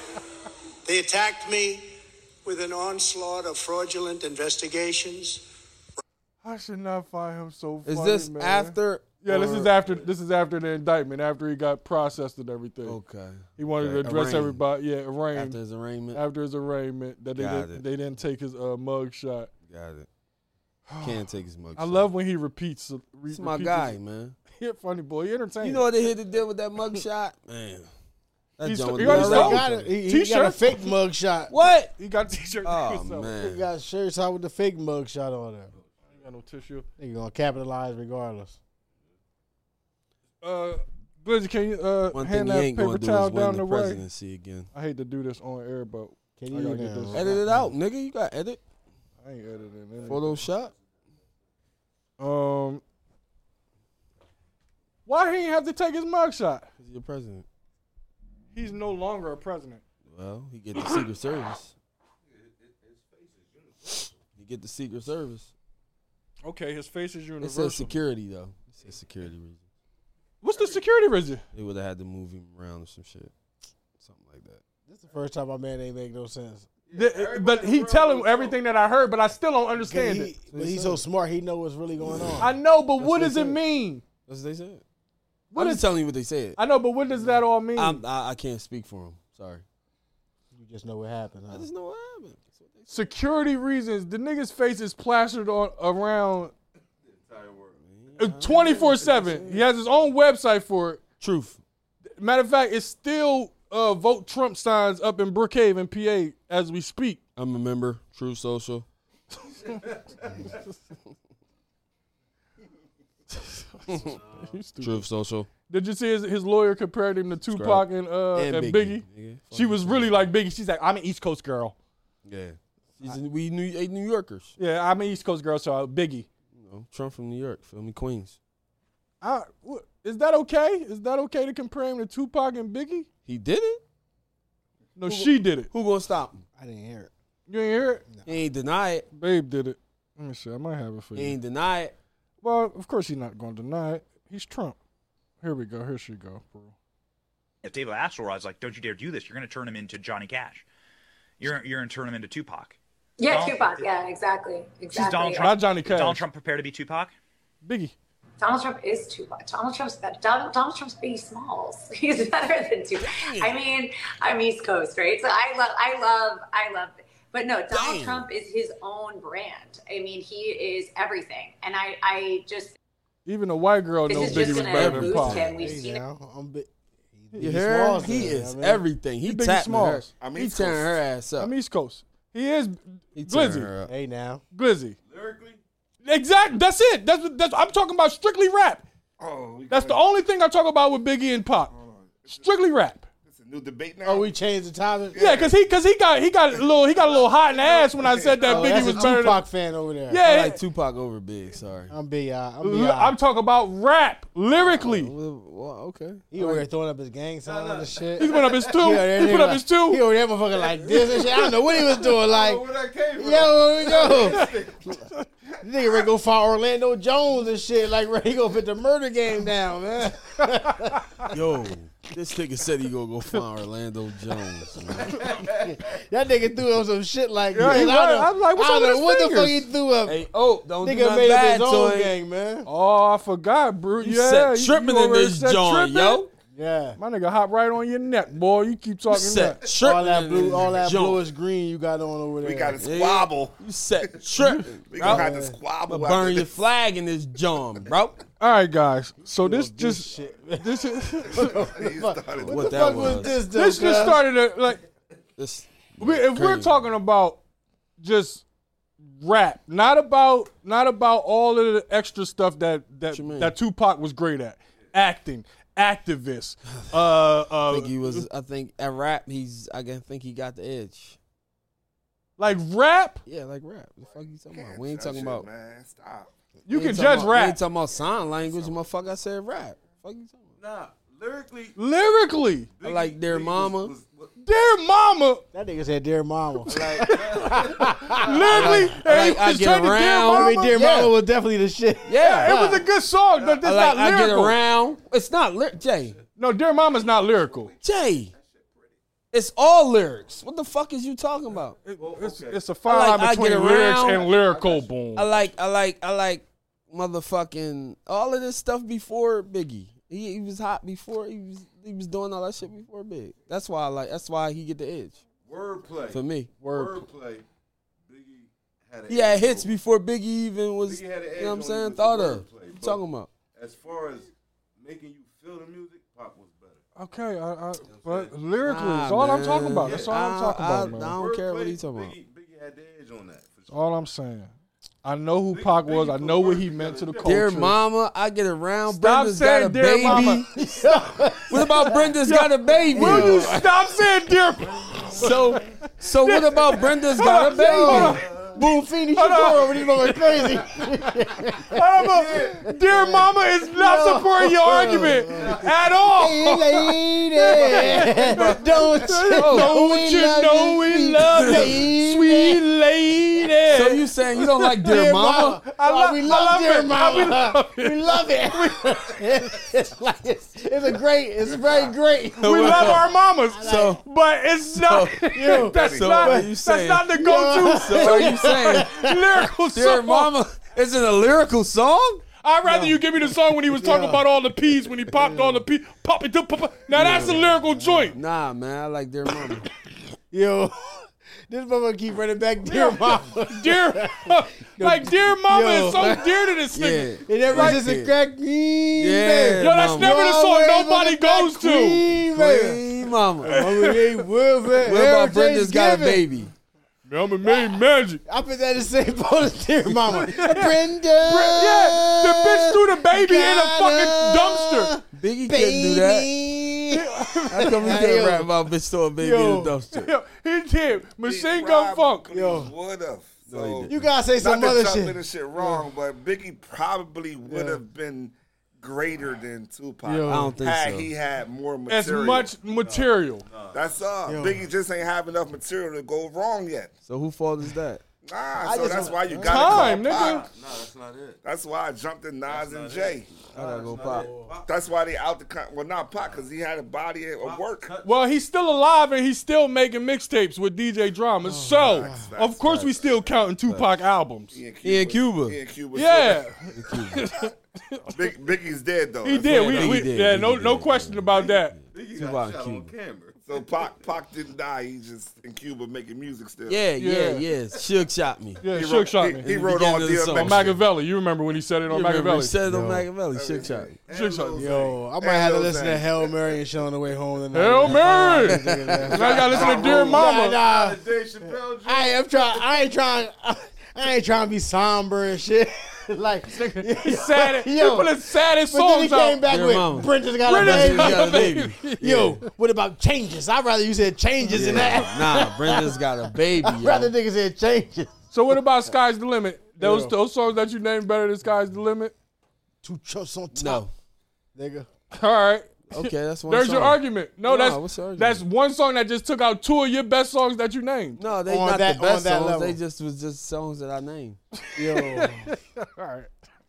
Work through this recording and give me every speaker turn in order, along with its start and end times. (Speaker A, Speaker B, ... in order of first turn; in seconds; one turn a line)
Speaker A: 0.8-5.5
Speaker B: 6.4-13.0
Speaker C: 7.9-9.7
Speaker C: 12.8-14.6
Speaker B: 13.6-15.6
Speaker C: 15.3-16.2
Speaker B: 16.1-19.5
Speaker C: 17.4-17.8
Speaker C: 19.7-20.1
Speaker B: 20.9-21.2
Speaker C: 21.0-22.1
Speaker B: 21.8-24.0
Speaker C: 23.3-24.4
Speaker B: 24.6-25.8
Speaker C: 25.6-27.9
Speaker C: 28.6-29.9
Speaker B: 28.6-30.9
Speaker D: 29.0-31.5
Speaker C: 31.5-31.9
Speaker B: 32.0-33.3
Speaker C: 32.6-33.6
Speaker D: 33.4-35.7
Speaker B: 36.1-36.9
Speaker D: 37.0-38.6
Speaker B: 40.4-44.0
Speaker C: 42.1-44.7
Speaker B: 44.7-47.4
Speaker D: 46.4-47.7
Speaker C: 47.1-48.6
Speaker B: 49.2-50.3
Speaker E: 50.0-51.2
Speaker C: 50.1-50.7
Speaker B: 52.2-52.8
Speaker B: 55.1-56.7
Speaker C: 56.8-57.5
Speaker B: 58.5-59.8
Speaker C: 60.1-61.7
Speaker E: 62.2-64.2
Speaker C: 64.4-65.5
Speaker B: 66.5-68.0
Speaker C: 67.4-69.6
Speaker E: 68.8-69.1
Speaker B: 70.4-71.4
Speaker E: 70.5-71.0
Speaker C: 71.5-73.3
Speaker C: 74.0-74.6
Speaker D: 74.9-76.7
Speaker E: 76.9-78.6
Speaker B: 76.9-80.3
Speaker D: 79.8-82.5
Speaker C: 80.5-81.0
Speaker C: 82.2-82.4
Speaker B: 82.4-84.0
Speaker C: 83.0-83.6
Speaker C: 84.3-84.8
Speaker B: 85.5-85.9
Speaker C: 85.5-86.6
Speaker B: 86.6-88.0
Speaker C: 87.8-89.6
Speaker D: 90.5-91.7
Speaker C: 91.5-92.9
Speaker B: 92.9-96.5
Speaker E: 97.0-97.8
Speaker C: 97.8-99.6
Speaker B: 98.2-101.0
Speaker C: 101.2-101.6
Speaker B: 102.2-107.2
Speaker C: 107.4-108.9
Speaker E: 109.7-110.6
Speaker B: 113.8-115.0
Speaker E: 113.9-114.6
Speaker C: 114.8-115.5
Speaker B: 115.7-121.8
Speaker C: 117.5-120.1
Speaker C: 122.2-124.6
Speaker B: 124.6-126.3
Speaker C: 126.6-128.4
Speaker B: 129.2-133.1
Speaker C: 133.3-133.8
Speaker B: 135.0-135.7
Speaker C: 135.1-136.4
Speaker D: 136.6-137.1
Speaker B: 137.5-138.1
Speaker C: 138.3-139.1
Speaker B: 139.1-141.4
Speaker C: 141.2-141.9
Speaker B: 142.4-144.8
Speaker B: 145.4-146.7
Speaker F: 147.6-150.7
Speaker F: 151.4-153.9
Speaker G: 153.2-155.6
Speaker F: 154.9-157.1
Speaker B: 155.4-156.2
Speaker B: 157.6-157.9
Speaker G: 158.4-172.8
Speaker C: 163.0-163.6
Speaker C: 167.7-168.3
Speaker B: 173.3-175.4
Speaker G: 174.1-176.0
Speaker C: 174.1-175.7
Speaker D: 175.4-178.8
Speaker C: 177.3-181.5
Speaker B: 179.2-180.1
Speaker H: 180.2-181.0
Speaker B: 181.4-183.7
Speaker C: 183.2-183.9
Speaker D: 183.9-184.4
Speaker B: 184.5-185.0
Speaker E: 185.1-185.6
Speaker B: 186.0-188.8
Speaker H: 189.2-190.0
Speaker B: 189.7-191.7
Speaker H: 191.7-192.5
Speaker B: 192.3-193.1
Speaker H: 193.3-194.3
Speaker D: 194.0-195.2
Speaker H: 195.1-195.6
Speaker B: 195.2-199.4
Speaker H: 196.6-198.7
Speaker D: 198.4-200.2
Speaker B: 200.1-200.6
Speaker C: 200.2-201.9
Speaker D: 201.9-203.2
Speaker B: 202.6-205.1
Speaker C: 204.5-206.6
Speaker D: 206.3-215.0
Speaker E: 207.4-209.0
Speaker B: 208.2-210.0
Speaker E: 210.7-214.8
Speaker D: 215.6-221.3
Speaker C: 221.3-225.3
Speaker E: 224.9-225.8
Speaker D: 225.5-230.2
Speaker B: 227.5-229.7
Speaker C: 230.1-232.1
Speaker D: 230.8-232.7
Speaker B: 232.7-236.3
Speaker C: 234.0-236.3
Speaker D: 236.5-237.0
Speaker B: 237.0-239.6
Speaker C: 239.1-241.2
Speaker D: 239.8-242.8
Speaker H: 242.4-243.6
Speaker C: 242.8-245.3
Speaker H: 244.9-246.5
Speaker D: 245.0-245.6
Speaker C: 245.9-248.2
Speaker B: 248.4-251.6
Speaker D: 249.2-254.2
Speaker H: 251.6-253.2
Speaker C: 252.5-253.4
Speaker B: 253.5-254.8
Speaker C: 255.4-256.8
Speaker B: 256.0-257.4
Speaker B: 258.0-258.4
Speaker B: 259.0-268.3
Speaker C: 263.1-263.5
Speaker C: 267.7-271.2
Speaker B: 272.4-273.2
Speaker C: 273.3-275.5
Speaker H: 274.1-276.3
Speaker B: 276.7-277.6
Speaker C: 276.7-280.5
Speaker E: 280.6-281.8
Speaker B: 281.8-282.7
Speaker E: 282.7-284.4
Speaker C: 282.8-283.9
Speaker B: 284.4-285.4
Speaker D: 285.5-288.9
Speaker E: 286.7-288.7
Speaker B: 287.0-291.0
Speaker C: 288.5-291.1
Speaker D: 290.3-292.9
Speaker C: 292.1-292.6
Speaker B: 292.2-294.6
Speaker E: 293.4-293.6
Speaker C: 293.6-296.2
Speaker B: 296.4-297.7
Speaker E: 296.8-299.0
Speaker C: 297.8-298.3
Speaker C: 299.3-301.8
Speaker B: 301.9-305.3
Speaker E: 301.9-302.6
Speaker C: 302.9-304.3
Speaker E: 303.9-305.5
Speaker C: 305.2-315.2
Speaker E: 315.4-317.4
Speaker C: 316.1-317.0
Speaker E: 318.1-319.8
Speaker C: 319.1-323.3
Speaker E: 320.8-323.0
Speaker E: 323.6-326.8
Speaker B: 327.0-331.1
Speaker E: 327.8-328.4
Speaker C: 328.6-332.1
Speaker E: 329.8-330.1
Speaker E: 330.9-333.8
Speaker B: 333.7-334.5
Speaker B: 335.0-337.8
Speaker E: 335.5-337.4
Speaker C: 337.2-340.6
Speaker B: 338.9-340.4
Speaker D: 340.2-342.1
Speaker C: 341.5-343.6
Speaker B: 342.2-345.5
Speaker D: 342.9-343.7
Speaker E: 344.8-345.2
Speaker C: 345.2-348.2
Speaker B: 346.2-348.2
Speaker D: 347.4-362.6
Speaker E: 347.9-348.6
Speaker B: 349.1-350.8
Speaker B: 351.7-364.8
Speaker E: 352.0-352.8
Speaker E: 355.3-355.9
Speaker E: 357.5-358.7
Speaker C: 359.3-359.8
Speaker C: 361.4-361.8
Speaker D: 363.4-363.8
Speaker C: 363.7-365.6
Speaker D: 364.8-374.0
Speaker B: 365.7-369.2
Speaker C: 372.4-373.0
Speaker B: 372.4-380.3
Speaker C: 373.6-374.0
Speaker C: 374.7-378.9
Speaker D: 375.4-376.5
Speaker H: 375.6-376.3
Speaker D: 377.1-379.5
Speaker C: 379.7-382.2
Speaker B: 382.4-388.2
Speaker D: 382.6-384.3
Speaker D: 385.1-385.6
Speaker C: 386.9-387.4
Speaker D: 387.0-388.1
Speaker C: 388.1-389.7
Speaker D: 390.3-396.3
Speaker B: 392.7-397.8
Speaker C: 396.7-398.1
Speaker D: 397.3-402.8
Speaker C: 399.0-400.2
Speaker B: 399.6-402.1
Speaker C: 402.3-403.7
Speaker D: 403.4-406.3
Speaker B: 403.4-404.2
Speaker C: 404.8-406.5
Speaker B: 407.1-408.2
Speaker D: 407.4-418.5
Speaker B: 410.1-414.9
Speaker C: 415.1-416.3
Speaker B: 416.9-417.8
Speaker C: 417.5-420.1
Speaker D: 419.2-419.8
Speaker B: 419.9-422.3
Speaker H: 421.2-432.6
Speaker D: 422.3-422.7
Speaker C: 423.5-424.0
Speaker D: 423.9-425.8
Speaker D: 427.5-427.8
Speaker D: 430.0-430.6
Speaker C: 430.3-431.1
Speaker B: 431.9-433.4
Speaker E: 432.7-434.1
Speaker H: 433.7-436.9
Speaker D: 434.3-434.6
Speaker C: 437.1-438.0
Speaker H: 438.2-440.4
Speaker D: 438.6-439.5
Speaker E: 438.8-441.4
Speaker B: 439.4-440.4
Speaker H: 441.4-443.3
Speaker E: 442.5-444.9
Speaker C: 443.5-444.3
Speaker D: 444.0-444.5
Speaker H: 444.7-447.9
Speaker E: 446.2-446.5
Speaker E: 447.4-448.2
Speaker B: 448.0-454.6
Speaker D: 451.4-452.3
Speaker H: 451.8-453.3
Speaker C: 452.6-452.9
Speaker H: 454.5-456.5
Speaker C: 454.8-455.6
Speaker B: 455.9-458.1
Speaker C: 456.7-457.3
Speaker H: 458.1-460.1
Speaker B: 459.2-461.8
Speaker C: 459.4-462.9
Speaker E: 461.4-464.1
Speaker H: 463.4-466.8
Speaker C: 466.7-468.6
Speaker B: 467.0-467.4
Speaker B: 468.6-469.5
Speaker H: 468.7-470.8
Speaker C: 469.4-470.8
Speaker B: 470.3-472.6
Speaker C: 471.9-473.9
Speaker D: 472.6-473.1
Speaker H: 473.3-476.3
Speaker E: 474.1-475.0
Speaker B: 474.1-474.7
Speaker D: 474.6-498.6
Speaker B: 477.5-478.6
Speaker C: 478.4-479.1
Speaker B: 479.1-480.6
Speaker E: 479.1-482.6
Speaker H: 479.3-480.0
Speaker B: 486.5-489.4
Speaker C: 489.4-492.4
Speaker B: 490.4-492.3
Speaker C: 494.5-497.1
Speaker B: 498.3-502.1
Speaker D: 499.8-500.1
Speaker D: 502.8-503.8
Speaker C: 503.6-503.9
Speaker D: 504.6-504.9
Speaker B: 505.1-511.2
Speaker C: 505.9-508.4
Speaker C: 511.2-514.4
Speaker D: 511.5-512.8
Speaker B: 514.7-516.3
Speaker D: 514.8-515.5